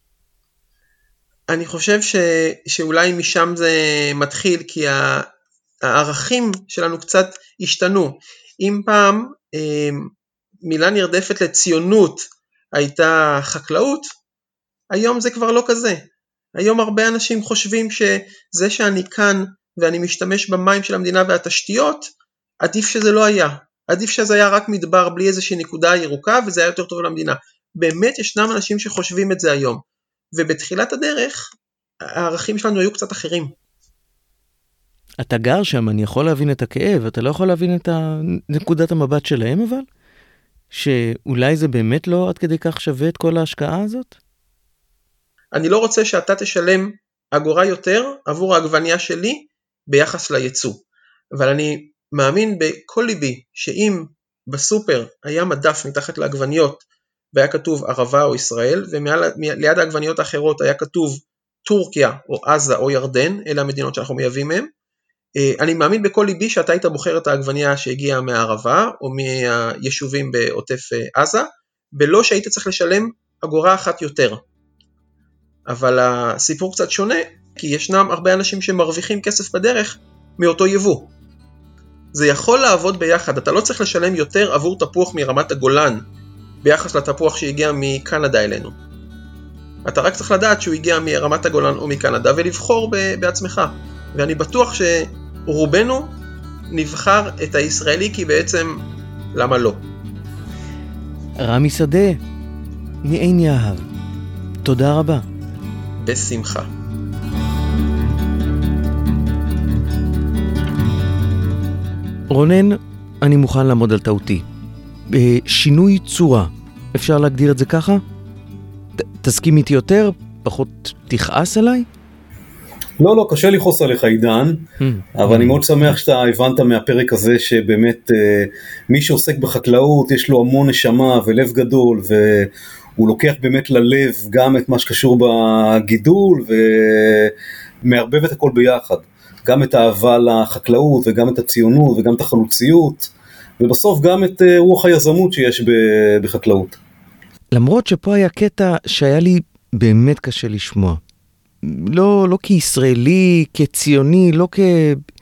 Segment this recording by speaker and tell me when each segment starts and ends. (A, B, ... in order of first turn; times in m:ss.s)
0:01.5-0:05.3 A
0:05.8-0:10.1 A
0:10.6-0:14.1 A
0:14.9-0:16.0 A
0:16.6-0:22.1 A
0:22.6-0:29.8 A
0:30.4-0:31.5 A
0:32.0-0:33.5 A
0:35.2-0:39.9 B
0:40.7-0:44.2 B
0:45.5-0:50.8 A
0:51.4-1:04.7 A
1:05.4-1:14.4 A
1:15.7-1:21.1 A
1:22.1-1:26.0 A
1:26.6-1:28.8 A
1:29.9-1:36.1 A
1:36.7-1:38.8 A
1:39.4-1:39.8 A
1:41.4-1:42.2 B
1:43.0-1:43.9 B
1:44.6-1:45.2 B
1:46.0-1:46.7 A
1:52.3-1:54.4 B
1:55.1-1:58.0 B
1:59.0-2:01.9 B
2:03.0-2:26.8 C
2:04.8-2:05.6 B
2:27.5-2:31.0 B
2:31.6-2:35.0 B